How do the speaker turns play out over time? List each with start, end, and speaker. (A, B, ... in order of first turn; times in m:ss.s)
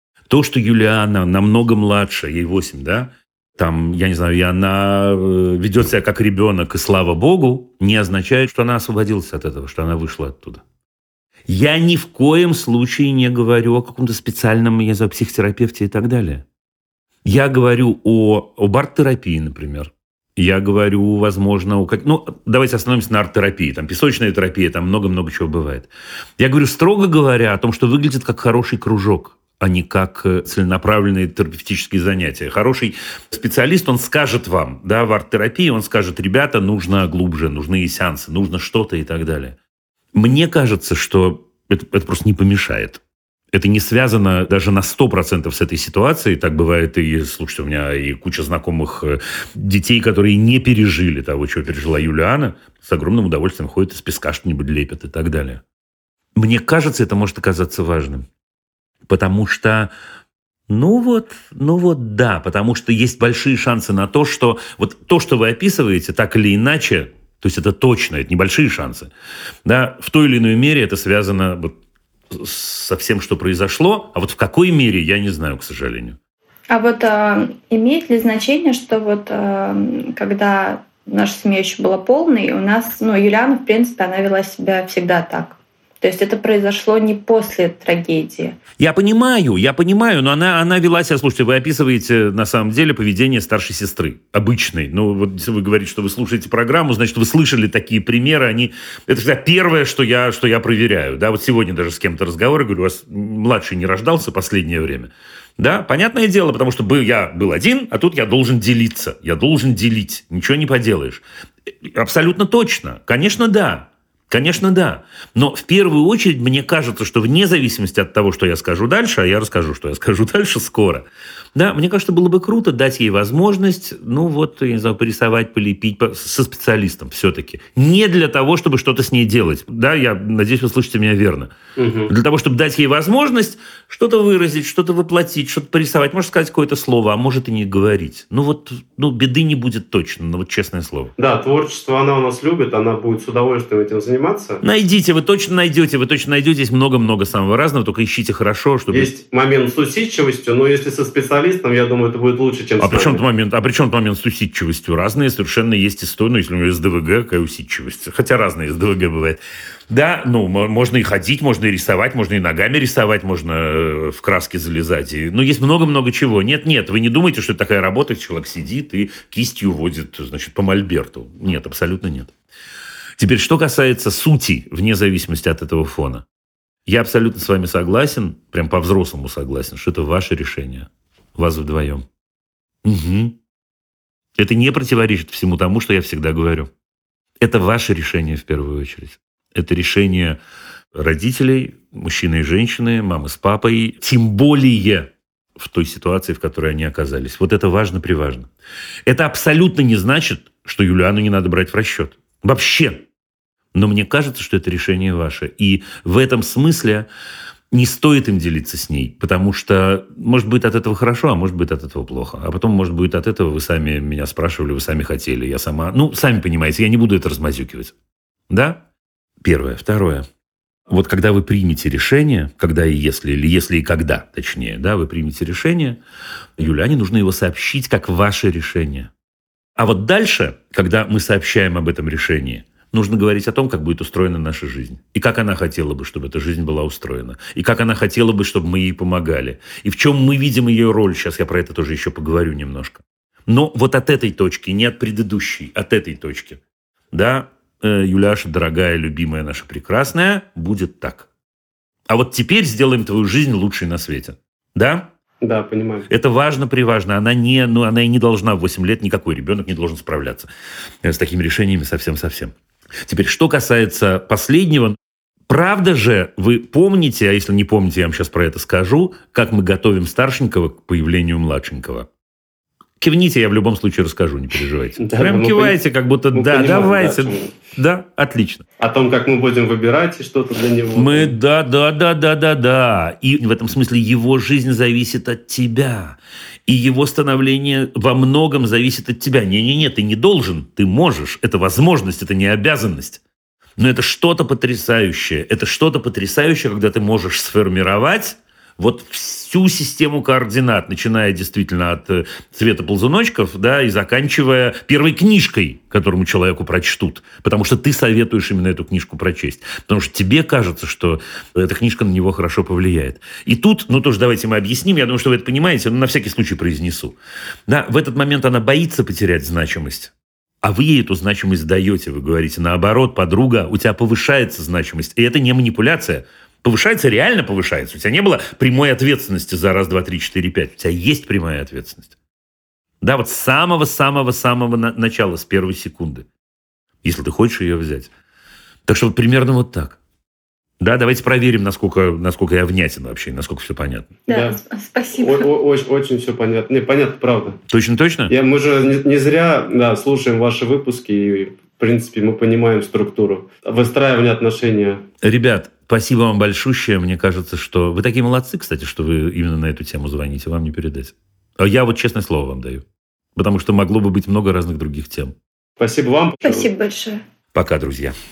0:00.3-0:10.6 A
0:11.5-0:16.4 A
0:17.2-0:39.6 A
0:40.2-0:43.0 A
0:43.5-0:55.6 A
0:56.4-0:58.3 A
0:59.1-0:59.9 A
1:00.7-1:09.1 A
1:09.6-1:11.7 A
1:12.3-1:16.2 A
1:16.7-1:28.6 B
1:28.8-1:51.2 A
1:51.8-2:11.6 A
2:11.8-2:12.1 C
2:12.1-2:21.1 A
2:21.2-2:24.6 C
2:24.6-2:29.1 A
2:28.9-2:33.2 C
2:32.8-2:52.3 A
2:53.2-2:56.2 A
2:56.9-3:02.0 A
3:02.8-3:03.4 A
3:04.4-3:06.7 A
3:07.4-3:10.4 A
3:11.0-3:18.5 A
3:19.1-3:23.0 A
3:23.7-3:27.1 A
3:27.7-3:37.9 A
3:38.5-3:38.8 A
3:39.4-3:40.3 A
3:40.9-3:46.0 A
3:46.6-3:49.1 A
3:49.8-4:06.6 A
4:07.1-4:11.3 A
4:12.1-4:15.1 A
4:15.4-4:16.1 C
4:16.1-4:20.5 A
4:21.0-4:22.5 A
4:23.0-4:25.0 A
4:25.5-4:32.1 A
4:33.0-4:38.6 A
4:35.0-4:35.8 C
4:36.3-4:37.6 C
4:38.8-4:41.3 C
4:41.0-4:53.2 A
4:53.8-5:32.1 A
5:33.0-5:36.3 A
5:37.0-5:38.1 A
5:38.9-5:40.0 A
5:40.8-5:44.1 A
5:44.3-5:45.5 B
5:44.3-5:44.6 C
5:45.2-5:47.6 C
5:47.7-5:48.3 A
5:48.3-5:55.0 C
5:55.2-6:02.8 A
6:03.4-6:05.4 A
6:05.8-6:06.7 C
6:06.4-6:07.2 B
6:07.5-6:08.1 A